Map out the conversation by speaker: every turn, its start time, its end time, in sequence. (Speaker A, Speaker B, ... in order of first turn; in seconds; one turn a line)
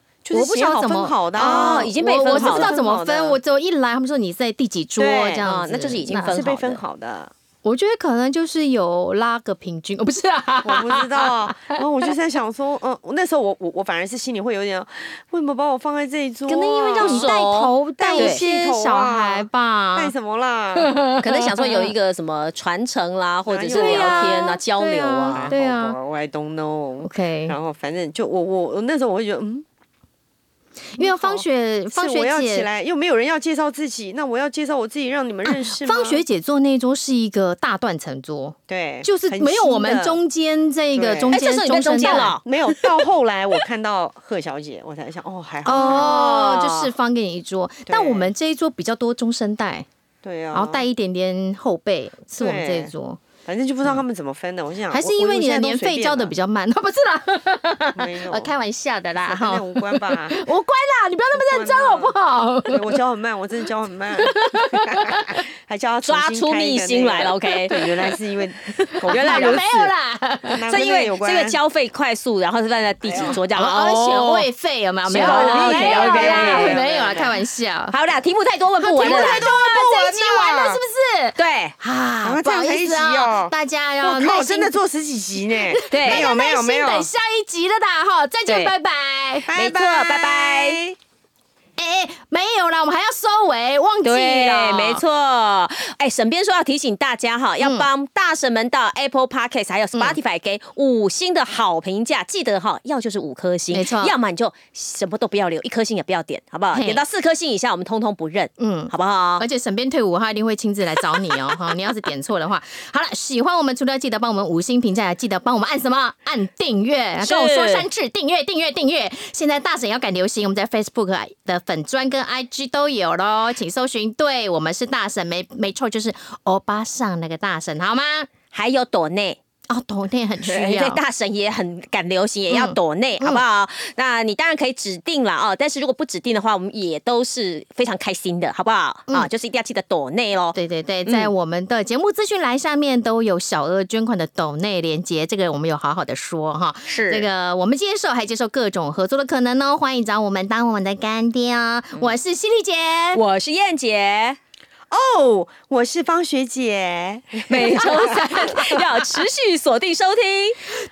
Speaker A: 0.2-3.4
Speaker B: 0.3-6.4
Speaker C: 1.3-2.8
Speaker A: 5.0-5.4
Speaker C: 5.4-6.8
Speaker A: 6.2-7.3
Speaker B: 7.6-11.8
Speaker A: 10.6-17.4
Speaker B: 16.5-20.1
Speaker C: 17.0-18.4
Speaker A: 18.0-20.9
Speaker B: 20.8-21.9
Speaker C: 21.2-25.5
Speaker A: 23.4-24.4
Speaker B: 23.7-26.0
Speaker A: 25.3-29.6
Speaker B: 27.0-27.6
Speaker B: 30.9-32.7
Speaker A: 31.0-36.2
Speaker B: 35.5-42.4
Speaker A: 38.7-40.2
Speaker A: 40.9-41.4
Speaker C: 41.3-42.9
Speaker A: 42.0-46.5
Speaker B: 45.6-49.9
Speaker C: 45.8-46.9
Speaker A: 47.9-48.3
Speaker A: 50.2-50.8
Speaker B: 50.5-53.2
Speaker A: 52.4-56.3
Speaker B: 54.9-63.0
Speaker A: 57.9-58.5
Speaker A: 59.2-60.4
Speaker A: 61.3-62.1
Speaker A: 62.7-69.9
Speaker B: 64.2-65.4
Speaker C: 66.0-67.9
Speaker C: 68.9-69.7
Speaker B: 69.0-70.6
Speaker A: 70.5-71.6
Speaker C: 70.7-74.5
Speaker A: 73.0-73.4
Speaker B: 73.2-78.0
Speaker C: 75.1-76.9
Speaker A: 75.1-77.3
Speaker C: 77.9-79.5
Speaker B: 78.8-84.7
Speaker A: 79.0-80.8
Speaker C: 81.3-81.7
Speaker A: 82.2-87.1
Speaker B: 85.3-89.5
Speaker C: 85.9-86.3
Speaker C: 88.5-88.7
Speaker A: 89.5-91.0
Speaker C: 89.5-90.8
Speaker B: 91.8-95.0
Speaker C: 94.0-109.4
Speaker B: 97.6-97.9
Speaker B: 103.7-104.1
Speaker B: 106.7-107.0
Speaker B: 108.6-128.3
Speaker C: 117.2-117.9
Speaker C: 128.5-129.4
Speaker B: 129.7-131.0
Speaker C: 130.4-141.3
Speaker B: 132.5-133.4
Speaker B: 140.5-153.2
Speaker C: 146.9-147.3
Speaker C: 153.1-154.4
Speaker A: 154.9-158.6
Speaker C: 157.5-160.6
Speaker B: 157.8-158.8